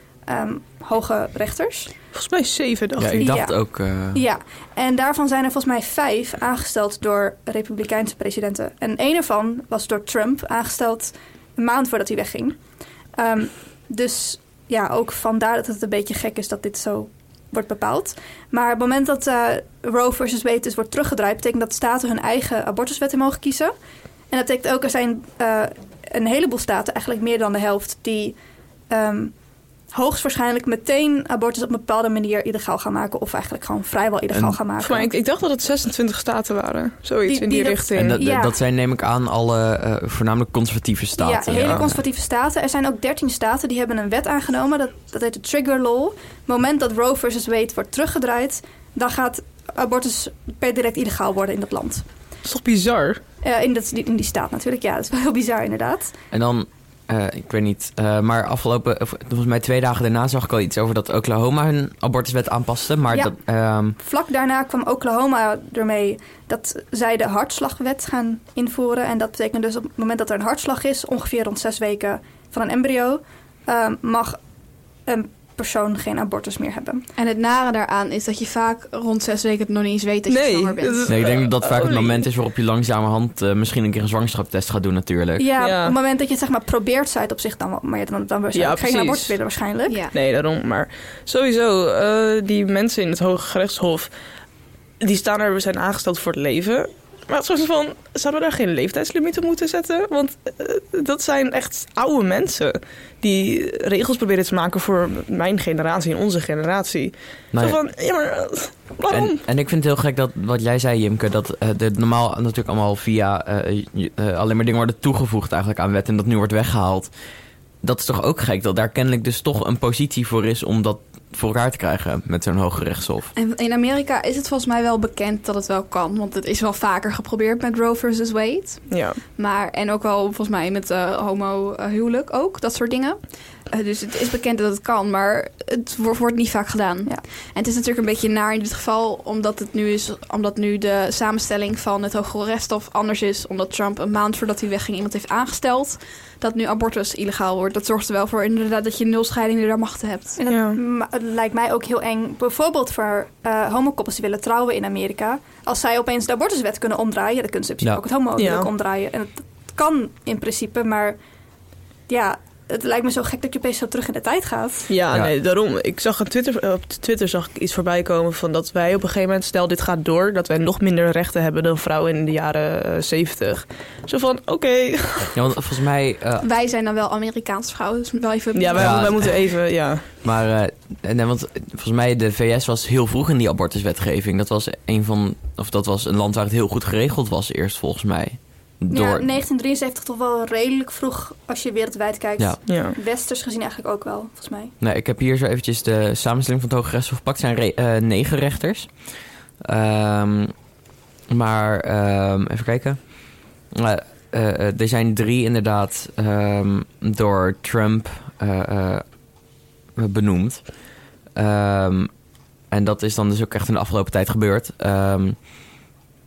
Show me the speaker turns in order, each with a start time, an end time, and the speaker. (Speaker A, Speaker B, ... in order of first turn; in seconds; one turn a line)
Speaker A: 0.2-1.9
Speaker B: 2.1-3.4
Speaker C: 3.0-4.2
Speaker A: 3.2-23.7
Speaker A: 24.3-29.4
Speaker A: 29.9-35.1
Speaker C: 34.3-34.6
Speaker B: 34.8-38.2
Speaker A: 37.2-38.6
Speaker C: 38.0-42.0
Speaker A: 41.2-52.1
Speaker B: 52.4-53.2
Speaker A: 53.4-56.2
Speaker C: 56.3-64.0
Speaker A: 63.1-77.1
Speaker D: 77.2-81.1
Speaker B: 80.3-82.2
Speaker C: 81.1-85.5
Speaker A: 85.4-90.0
Speaker B: 85.6-86.0
Speaker B: 88.5-89.6
Speaker D: 89.9-90.2
Speaker B: 90.1-109.4
Speaker C: 107.5-107.8
Speaker C: 109.1-123.3
Speaker D: 123.3-150.4
Speaker B: 128.9-129.2
Speaker A: 150.4-161.2
Speaker B: 150.5-150.8
Speaker B: 158.4-158.7
Speaker A: 162.1-165.0
Speaker B: 164.9-175.3
Speaker C: 175.3-176.4
Speaker D: 176.4-179.3
Speaker B: 178.6-180.1
Speaker C: 178.8-189.3
Speaker A: 188.9-194.7
Speaker B: 192.7-192.9
Speaker C: 194.8-200.7
Speaker C: 201.3-209.4
Speaker C: 209.9-215.5